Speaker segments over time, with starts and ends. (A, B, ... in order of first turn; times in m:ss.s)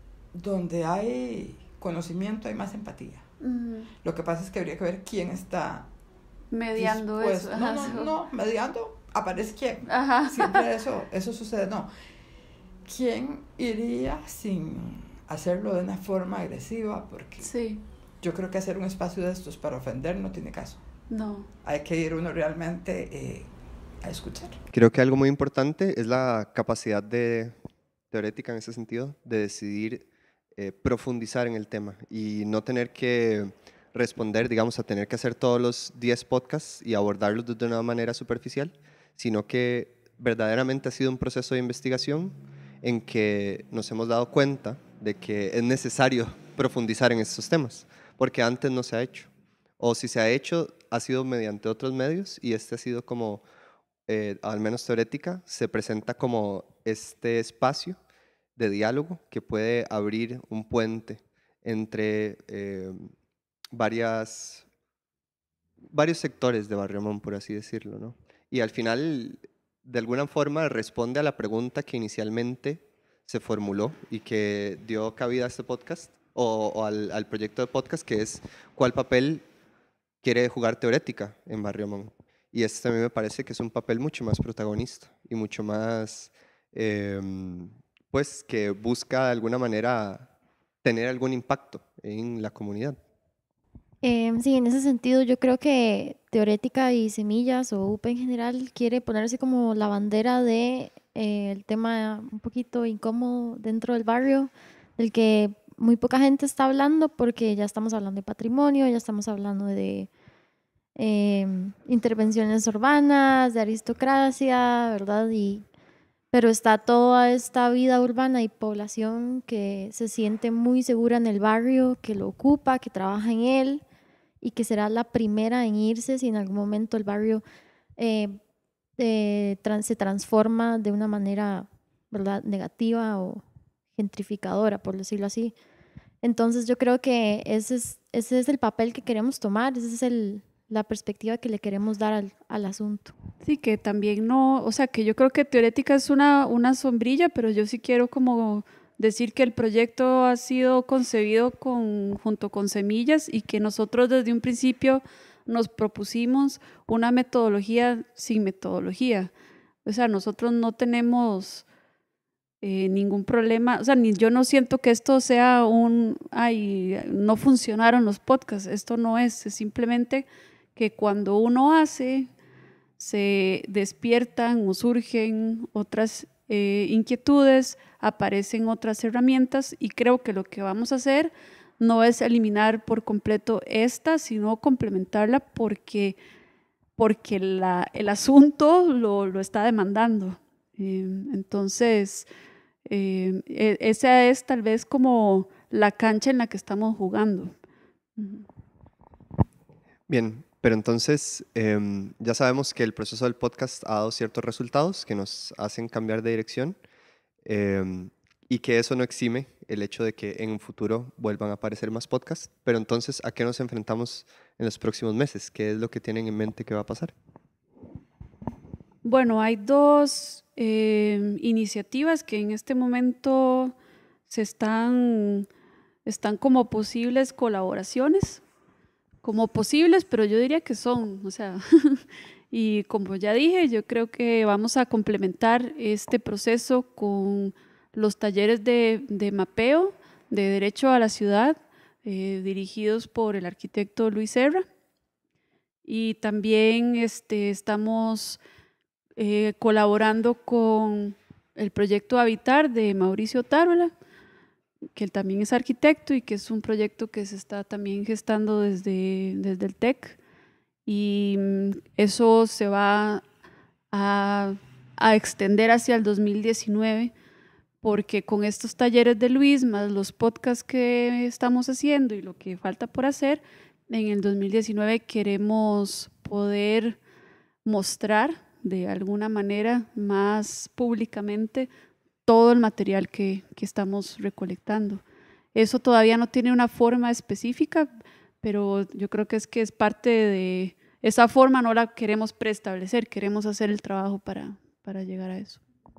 0:00.3-0:03.2 A
0:03.4-0:03.9 B
0:04.0-0:05.9 A
0:06.5-0:08.1 B
0:06.8-0:11.9 A
0:09.9-0:10.6 B
0:12.8-0:17.5 A
0:17.4-0:17.8 B
0:18.2-0:20.8 A
0:21.1-0:21.5 B
0:21.6-0:23.5 A
0:24.0-0:24.6 A
0:24.7-0:27.5 C
0:28.1-0:53.4 C
0:54.1-0:58.0 C
0:58.6-1:03.1 C
1:03.7-1:04.6 C
1:05.9-1:19.4 C
1:20.2-1:30.3 C
1:30.8-1:33.0 C
1:34.0-1:50.1 D
1:51.0-1:55.6 D
1:56.3-2:03.8 D
2:04.4-2:07.4 D
2:08.0-2:08.4 D
2:09.0-2:13.4 D
2:13.9-2:15.5 D
2:16.2-2:23.1 D
2:23.4-2:39.3 B
2:39.8-2:41.6 B
2:42.6-2:52.3 B
2:53.0-3:06.2 B
3:07.0-3:12.2 B
3:12.8-3:17.5 B
3:18.2-3:18.4 B
3:20.1-3:26.8 C
3:27.4-3:37.1 C
3:39.0-3:43.7 B
3:44.3-3:45.5 B
3:46.0-3:48.4 B
3:49.2-4:04.6 B
4:05.8-4:08.4 B
4:09.2-4:13.9 B
4:14.9-4:20.2 B
4:20.8-4:23.2 B
4:23.9-4:27.1 B
4:27.8-4:37.0 B
4:37.6-4:41.7 B
4:42.2-4:45.0 B
4:45.5-4:47.9 B
4:48.4-4:55.6 B